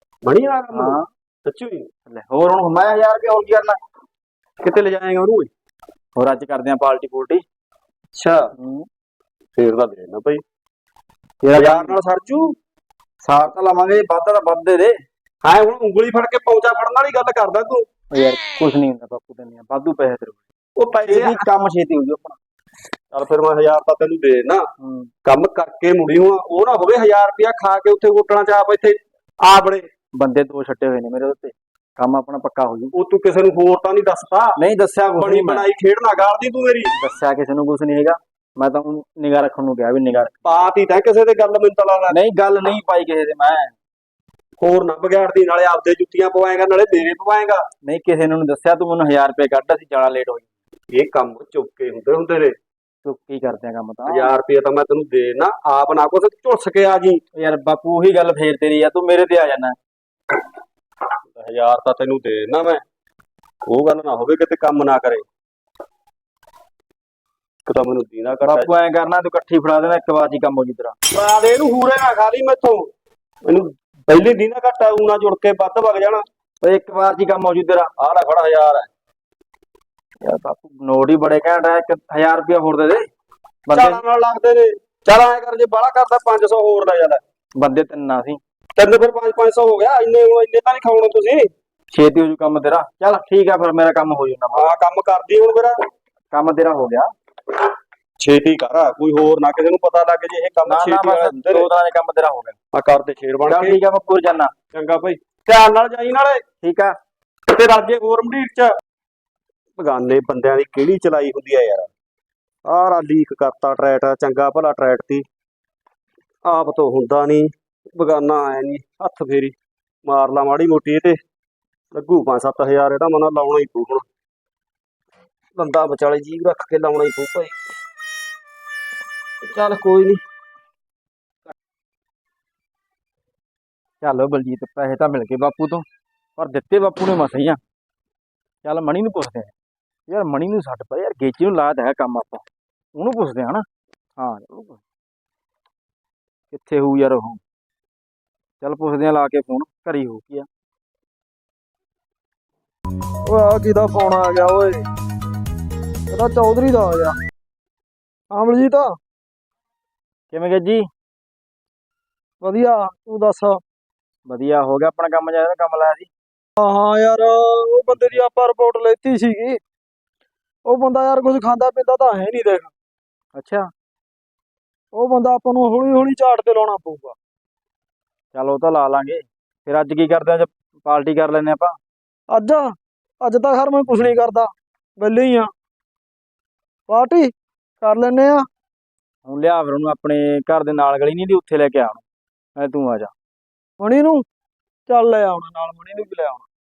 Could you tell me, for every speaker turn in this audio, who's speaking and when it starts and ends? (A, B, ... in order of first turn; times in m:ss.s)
0:00.2-0:01.9 A
0:00.7-0:01.0 B
0:02.1-0:03.8 B
0:04.6-0:05.5 A
0:06.2-0:07.4 B
0:08.1-0:08.5 A
0:08.6-0:08.9 B
0:09.5-0:10.4 A
0:11.4-0:12.0 B
0:11.5-0:12.5 A
0:13.2-0:15.0 B
0:15.4-0:17.8 A
0:18.1-0:20.4 B
0:20.8-0:21.4 A
0:21.0-0:22.4 B
0:23.1-0:24.6 A
0:24.8-0:25.1 B
0:25.2-0:29.9 A
0:30.2-0:32.9 B
0:32.9-0:34.6 A
0:34.6-0:35.6 B
0:35.2-0:36.9 A
0:37.0-0:40.4 B
0:40.4-0:42.2 A
0:42.1-0:43.7 B
0:44.6-0:47.6 A
0:47.8-0:50.5 B
0:50.9-0:52.5 A
0:53.0-0:54.3 B
0:54.1-0:57.2 A
0:57.4-0:59.8 B
1:01.4-1:02.8 A
1:03.6-1:05.2 A
1:07.6-1:08.7 A
1:08.4-1:11.0 B
1:11.1-1:12.9 A
1:13.4-1:16.2 A
1:16.6-1:17.9 B
1:18.0-1:18.9 A
1:20.2-1:23.0 B
1:23.6-1:24.0 B
1:23.7-1:27.2 A
1:27.6-1:28.4 B
1:28.8-1:31.5 A
1:31.9-1:34.7 B
1:34.5-1:35.8 A
1:36.3-1:37.1 B
1:38.2-1:41.7 A
1:40.6-1:42.6 B
1:42.7-1:43.8 A
1:43.5-1:44.5 B
1:44.7-1:46.4 A
1:46.6-1:47.0 B
1:47.5-1:48.7 A
1:49.8-1:51.9 A
1:52.6-1:55.2 A
1:56.4-1:59.5 A
2:00.0-2:01.2 A
2:01.9-2:04.0 A
2:05.6-2:07.5 A
2:09.5-2:10.2 B
2:14.0-2:15.8 B
2:16.4-2:17.6 B
2:18.6-2:19.5 B
2:20.1-2:23.6 B
2:24.2-2:24.8 B
2:26.5-2:27.4 B
2:28.6-2:30.5 B
2:33.2-2:34.8 C
2:36.1-2:37.2 C
2:38.3-2:38.9 C
2:40.3-2:40.9 B
2:42.4-2:43.6 C
2:44.3-2:46.1 B
2:46.6-2:49.6 C
2:50.6-2:52.7 C
2:53.4-2:53.7 B
2:54.9-2:57.1 C
2:58.3-3:01.8 B
3:02.3-3:05.5 C
3:06.9-3:08.4 C
3:09.2-3:12.0 B
3:12.6-3:13.1 B
3:13.8-3:14.2 C
3:14.9-3:16.4 C